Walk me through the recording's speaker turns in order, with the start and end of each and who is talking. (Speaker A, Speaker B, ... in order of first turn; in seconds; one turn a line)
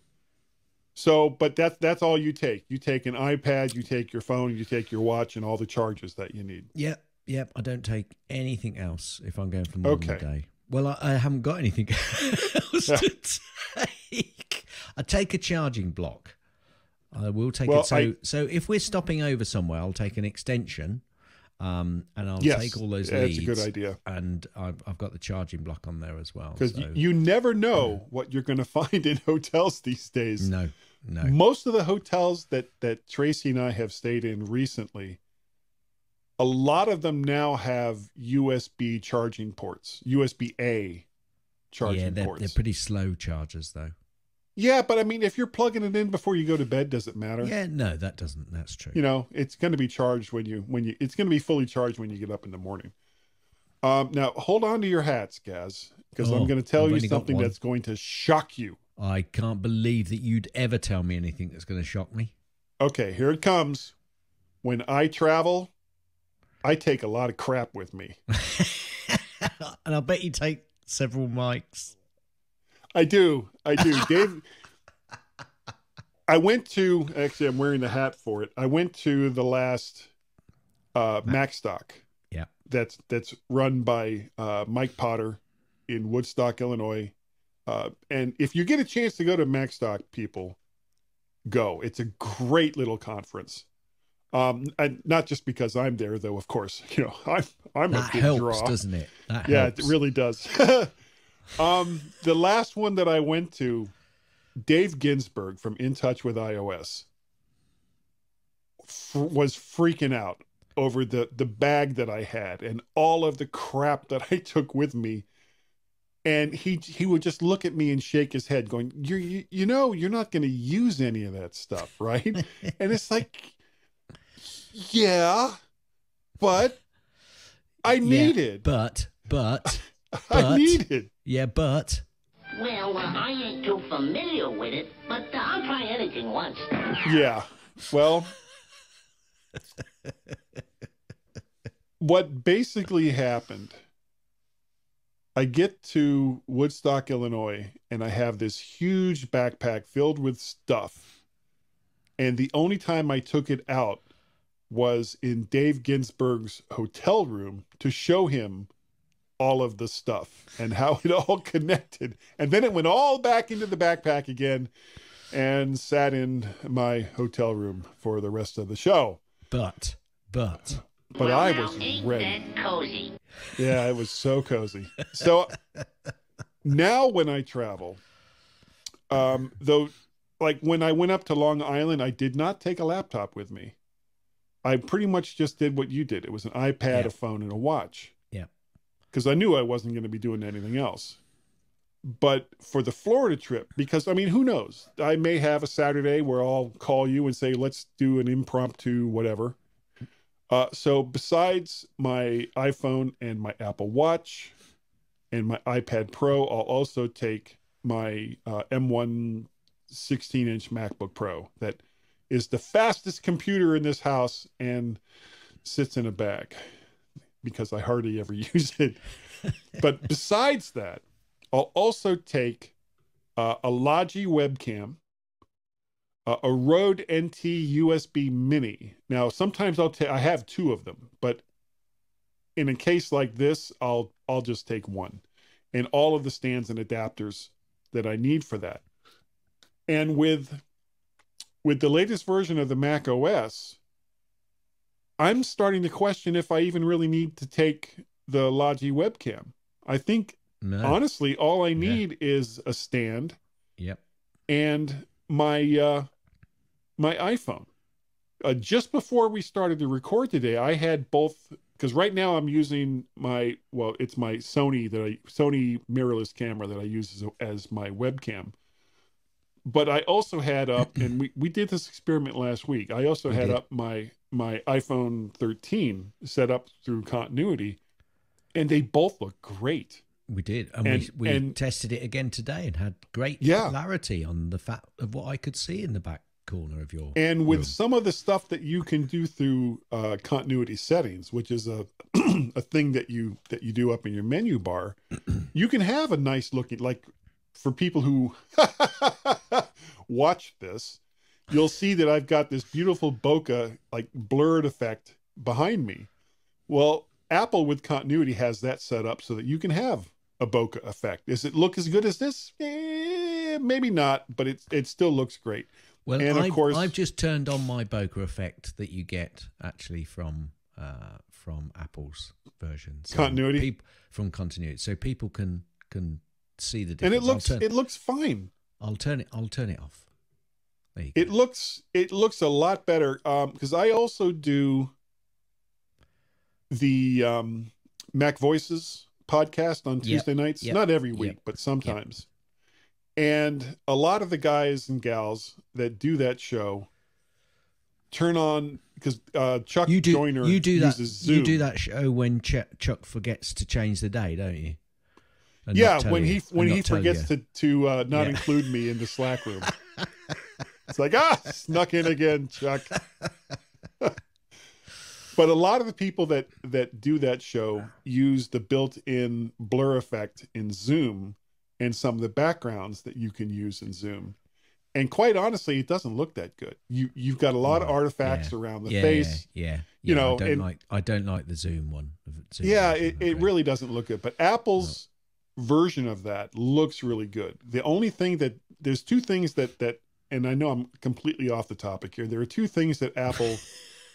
Speaker A: 1.0-6.7
Speaker B: 6.7-16.4
Speaker A: 9.8-10.2
Speaker B: 17.1-21.0
Speaker A: 17.7-18.1
Speaker B: 21.6-27.0
Speaker A: 22.4-24.0
Speaker A: 26.6-30.5
Speaker B: 30.4-31.4
Speaker A: 31.2-35.2
Speaker A: 36.4-41.1
Speaker A: 41.7-42.6
Speaker B: 41.8-43.9
Speaker A: 44.6-47.5
Speaker B: 47.4-49.0
Speaker A: 48.9-52.9
Speaker A: 53.8-58.8
Speaker B: 56.2-57.6
Speaker B: 59.0-62.3
Speaker A: 62.8-64.0
Speaker A: 64.6-65.7
Speaker A: 66.6-68.2
Speaker B: 68.5-71.9
Speaker A: 73.0-74.5
Speaker A: 76.3-80.1
Speaker A: 81.0-82.0
Speaker A: 82.7-87.1
Speaker A: 87.7-90.6
Speaker A: 91.5-93.7
Speaker A: 94.3-98.8
Speaker B: 97.9-100.0
Speaker A: 99.5-100.9
Speaker A: 101.6-103.9
Speaker A: 104.6-107.1
Speaker A: 108.8-115.3
Speaker A: 116.2-123.6
Speaker A: 124.7-125.6
Speaker A: 126.4-126.8
Speaker A: 127.8-128.7
Speaker B: 127.9-132.0
Speaker A: 130.1-131.1
Speaker C: 132.5-137.0
Speaker A: 137.1-138.3
Speaker A: 142.0-143.8
Speaker A: 145.4-151.1
Speaker A: 152.2-154.0
Speaker A: 154.7-158.7
Speaker A: 159.4-164.7
Speaker A: 165.3-169.2
Speaker B: 169.5-170.8
Speaker A: 171.1-172.4
Speaker C: 171.2-173.1
Speaker A: 173.6-175.5
Speaker A: 176.6-178.0
Speaker A: 179.1-183.8
Speaker A: 184.6-188.1
Speaker A: 189.1-191.2
Speaker A: 192.1-199.6
Speaker A: 200.5-204.6
Speaker A: 205.3-215.0
Speaker A: 215.6-216.6
Speaker A: 217.4-219.0
Speaker A: 219.8-222.7
Speaker A: 223.4-225.0
Speaker A: 226.3-231.4
Speaker A: 232.6-238.8
Speaker A: 239.9-240.6
Speaker A: 241.6-243.8
Speaker A: 245.2-253.4
Speaker B: 250.6-251.0
Speaker B: 251.8-252.0
Speaker A: 254.5-256.1
Speaker A: 257.0-257.7
Speaker A: 258.4-268.5
Speaker A: 269.7-277.8
Speaker B: 273.3-273.6
Speaker A: 278.5-280.0
Speaker B: 280.3-287.8
Speaker A: 280.9-281.6
Speaker A: 283.4-283.8
Speaker A: 287.2-295.0
Speaker A: 295.5-306.1
Speaker A: 306.7-317.0
Speaker B: 316.1-327.7
Speaker A: 323.1-323.7
Speaker A: 327.0-328.5
Speaker B: 328.8-330.1
Speaker B: 330.9-331.3
Speaker A: 331.1-334.9
Speaker A: 336.7-342.3
Speaker B: 340.0-342.0
Speaker A: 343.2-346.9
Speaker A: 348.1-351.6
Speaker B: 349.9-354.8
Speaker B: 355.7-357.3
Speaker A: 355.7-359.8
Speaker B: 358.1-358.6
Speaker A: 360.9-362.9
Speaker A: 365.4-374.4
Speaker A: 374.9-379.4
Speaker B: 377.6-383.5
Speaker A: 380.0-380.7
Speaker A: 382.6-393.6